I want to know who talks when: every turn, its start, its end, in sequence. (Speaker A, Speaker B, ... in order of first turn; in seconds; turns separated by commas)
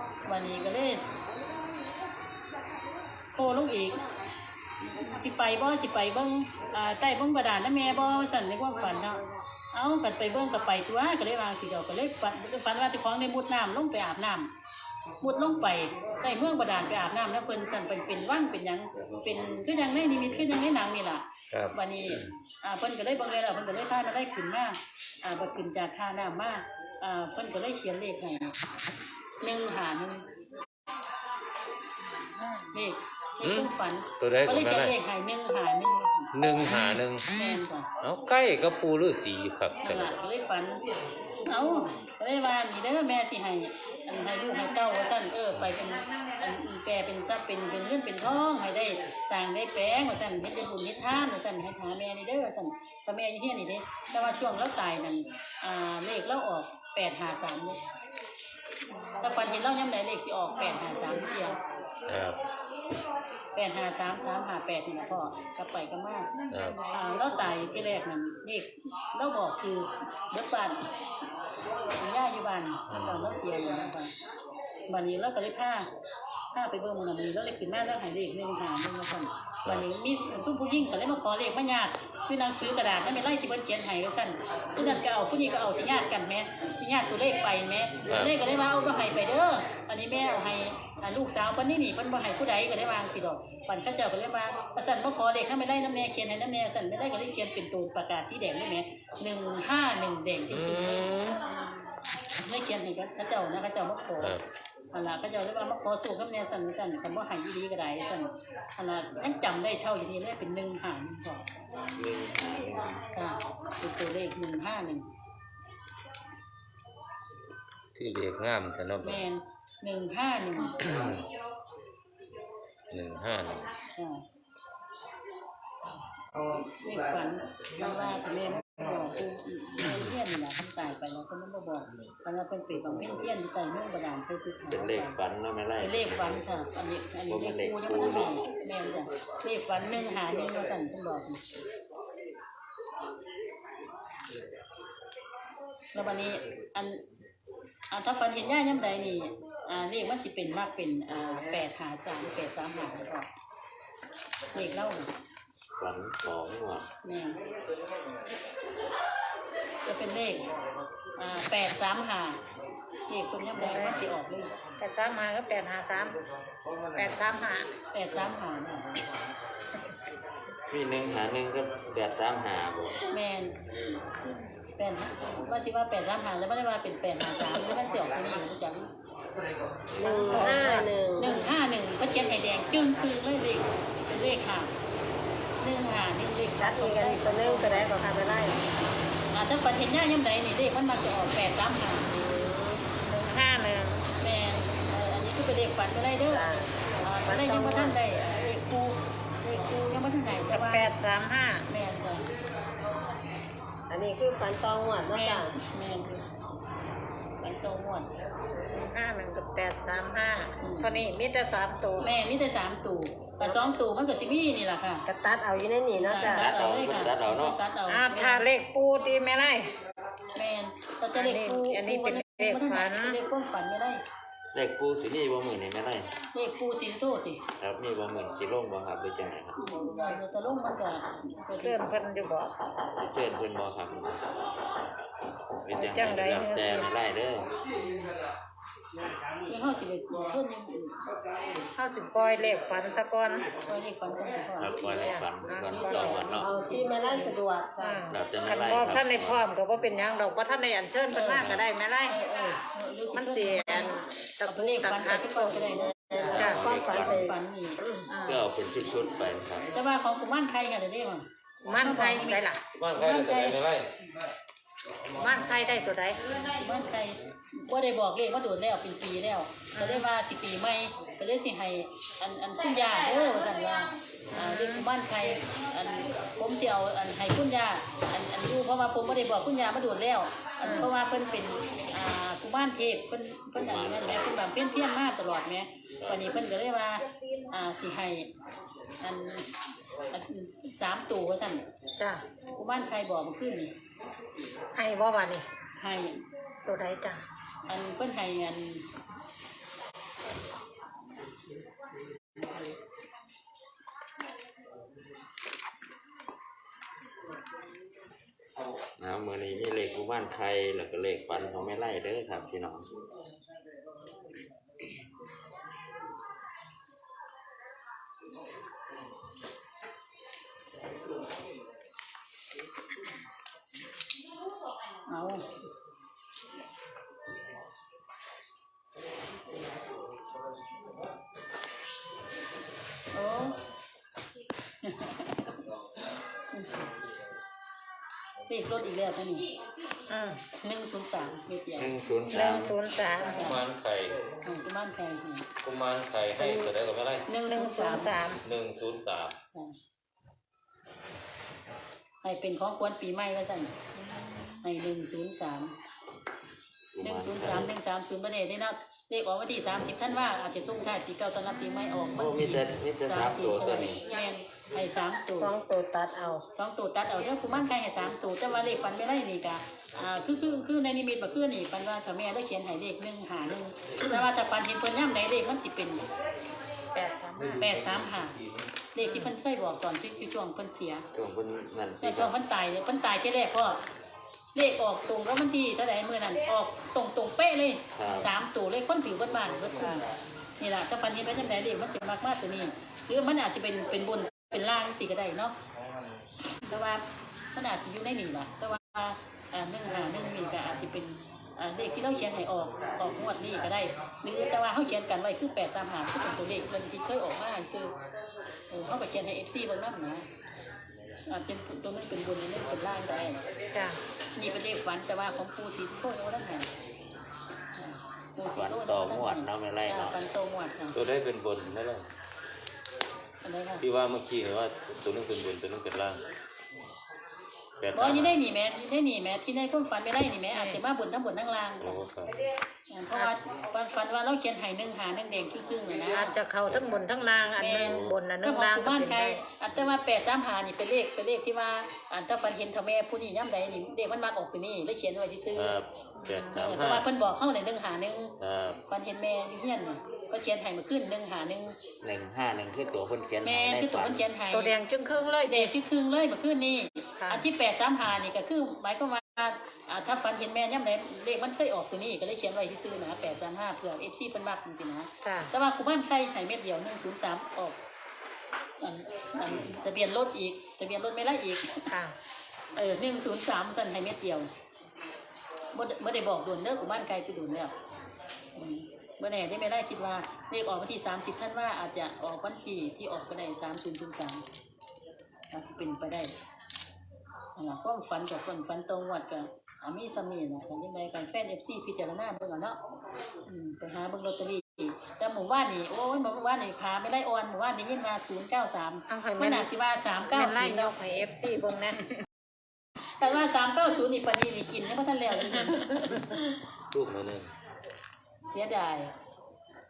Speaker A: 0.2-1.0, Speaker A: 3.3-4.0, Speaker A: 5.0-9.2, Speaker A: 9.7-14.5, Speaker A: 15.2-28.6, Speaker B: 21.5-22.3, Speaker A: 29.4-30.2, Speaker C: 32.4-32.6, Speaker A: 32.7-36.3, Speaker B: 33.4-34.9, Speaker B: 36.3-37.2, Speaker A: 37.3-37.9, Speaker B: 38.0-40.1, Speaker A: 39.8-40.8, Speaker A: 41.4-57.8, Speaker A: 59.2-61.6, Speaker B: 62.1-62.4, Speaker A: 63.5-66.3, Speaker B: 66.5-66.8, Speaker A: 66.9-70.8, Speaker A: 72.0-74.1, Speaker B: 72.9-73.4, Speaker A: 74.9-75.9, Speaker A: 76.5-101.1, Speaker B: 88.0-88.3, Speaker B: 100.5-101.4, Speaker A: 102.3-104.4, Speaker A: 104.9-111.5, Speaker D: 112.0-113.0, Speaker A: 113.1-115.0, Speaker B: 117.9-119.2, Speaker A: 119.0-120.9, Speaker B: 120.8-121.2, Speaker B: 122.9-123.7, Speaker A: 124.0-124.2, Speaker A: 126.8-135.2, Speaker D: 134.7-136.4, Speaker A: 135.8-141.4, Speaker D: 137.3-138.3, Speaker A: 145.9-147.0, Speaker A: 147.9-153.3, Speaker A: 154.5-155.1, Speaker D: 155.8-156.9, Speaker A: 157.0-157.4, Speaker A: 159.8-160.5, Speaker A: 161.2-162.4, Speaker A: 163.1-164.5, Speaker C: 163.6-164.0, Speaker C: 164.8-166.2, Speaker C: 166.9-167.7, Speaker A: 167.9-168.9, Speaker D: 170.7-173.0, Speaker A: 173.1-173.5, Speaker A: 174.8-178.9, Speaker E: 179.9-181.5, Speaker C: 180.0-180.9, Speaker A: 180.3-180.6, Speaker A: 181.2-184.7, Speaker A: 185.6-188.6, Speaker E: 186.6-188.6, Speaker A: 189.3-192.1, Speaker E: 192.1-192.9, Speaker C: 193.0-194.1, Speaker A: 194.2-200.9, Speaker E: 196.3-196.7, Speaker E: 197.2-198.0, Speaker C: 200.5-201.6, Speaker A: 201.7-202.2, Speaker E: 203.9-205.5, Speaker A: 205.1-206.3, Speaker A: 207.4-208.1, Speaker C: 208.7-212.1, Speaker A: 210.6-211.0, Speaker A: 212.0-215.0, Speaker E: 215.1-216.5, Speaker A: 215.9-218.5, Speaker D: 216.2-217.6, Speaker C: 217.9-219.7, Speaker A: 220.3-224.0, Speaker C: 221.1-223.2, Speaker D: 224.5-226.1, Speaker A: 226.3-227.4, Speaker D: 227.6-229.6, Speaker A: 229.6-231.9, Speaker C: 231.6-232.5, Speaker D: 233.0-234.3, Speaker D: 235.6-237.5, Speaker C: 235.7-236.9, Speaker A: 239.5-240.9, Speaker C: 241.8-243.5, Speaker A: 243.6-245.2, Speaker D: 244.6-246.5, Speaker C: 244.9-246.2, Speaker A: 245.7-247.3, Speaker E: 246.4-248.1, Speaker C: 247.8-252.2, Speaker D: 248.1-249.4, Speaker A: 251.1-253.9, Speaker C: 253.1-256.6, Speaker A: 254.4-257.8, Speaker E: 255.9-258.0, Speaker D: 256.3-257.2, Speaker C: 258.1-258.4, Speaker D: 258.2-259.7, Speaker A: 259.7-263.6, Speaker C: 261.7-262.6, Speaker B: 262.8-263.9, Speaker C: 265.1-266.2, Speaker A: 266.4-288.3, Speaker C: 269.8-270.1, Speaker C: 274.3-274.9, Speaker D: 283.5-284.4, Speaker A: 289.0-289.5, Speaker A: 290.1-291.6, Speaker C: 292.0-292.2, Speaker A: 292.5-293.7, Speaker C: 294.7-295.4, Speaker A: 295.8-296.2, Speaker C: 296.6-297.2, Speaker A: 297.7-298.8, Speaker D: 309.0-312.9, Speaker A: 325.1-325.4, Speaker A: 333.1-333.6, Speaker A: 334.8-335.5, Speaker A: 336.5-336.9, Speaker A: 338.5-339.5, Speaker C: 340.1-340.4, Speaker A: 340.5-341.9, Speaker D: 341.8-342.8, Speaker C: 342.3-343.5, Speaker A: 343.3-343.6, Speaker B: 343.4-344.2, Speaker A: 344.4-345.4, Speaker B: 345.6-347.2, Speaker A: 347.3-348.1, Speaker C: 347.5-348.4, Speaker B: 348.4-349.3, Speaker A: 352.2-353.7, Speaker C: 354.1-354.5, Speaker A: 354.6-355.7, Speaker D: 356.9-357.7, Speaker A: 357.0-365.5, Speaker D: 362.1-364.0, Speaker E: 365.4-366.4, Speaker A: 366.5-376.0, Speaker C: 376.9-377.6, Speaker B: 377.4-378.7, Speaker A: 377.6-378.4, Speaker A: 378.9-381.0, Speaker C: 379.0-379.3, Speaker D: 381.1-382.3, Speaker A: 382.0-383.8, Speaker A: 384.5-395.5, Speaker D: 387.9-388.3, Speaker A: 396.7-397.0, Speaker A: 397.5-407.9, Speaker A: 408.7-410.2, Speaker A: 411.2-413.4, Speaker A: 414.3-416.7, Speaker A: 417.8-421.0, Speaker D: 418.5-420.2, Speaker B: 420.9-422.1, Speaker A: 423.4-423.8, Speaker B: 423.8-426.2, Speaker B: 427.8-428.4, Speaker A: 427.9-432.0, Speaker C: 430.5-430.8, Speaker B: 431.8-432.4, Speaker A: 432.9-436.3, Speaker C: 436.1-439.4, Speaker A: 437.6-445.8, Speaker B: 437.8-438.1, Speaker B: 445.5-447.1, Speaker C: 446.2-446.5, Speaker A: 446.5-448.3, Speaker B: 448.4-448.8, Speaker A: 448.9-451.8, Speaker D: 452.0-454.2, Speaker A: 453.4-454.7, Speaker C: 454.5-455.7, Speaker A: 455.5-467.8, Speaker C: 457.2-457.4, Speaker C: 465.2-465.5, Speaker A: 468.8-471.9, Speaker C: 471.9-472.1, Speaker A: 472.7-474.5, Speaker A: 475.7-477.7, Speaker A: 478.5-484.4, Speaker A: 485.5-486.3, Speaker A: 487.6-492.8, Speaker A: 493.4-500.9, Speaker C: 499.1-499.7, Speaker C: 500.3-502.1, Speaker A: 503.1-505.9, Speaker C: 505.5-506.4, Speaker B: 506.9-507.5, Speaker A: 508.4-509.1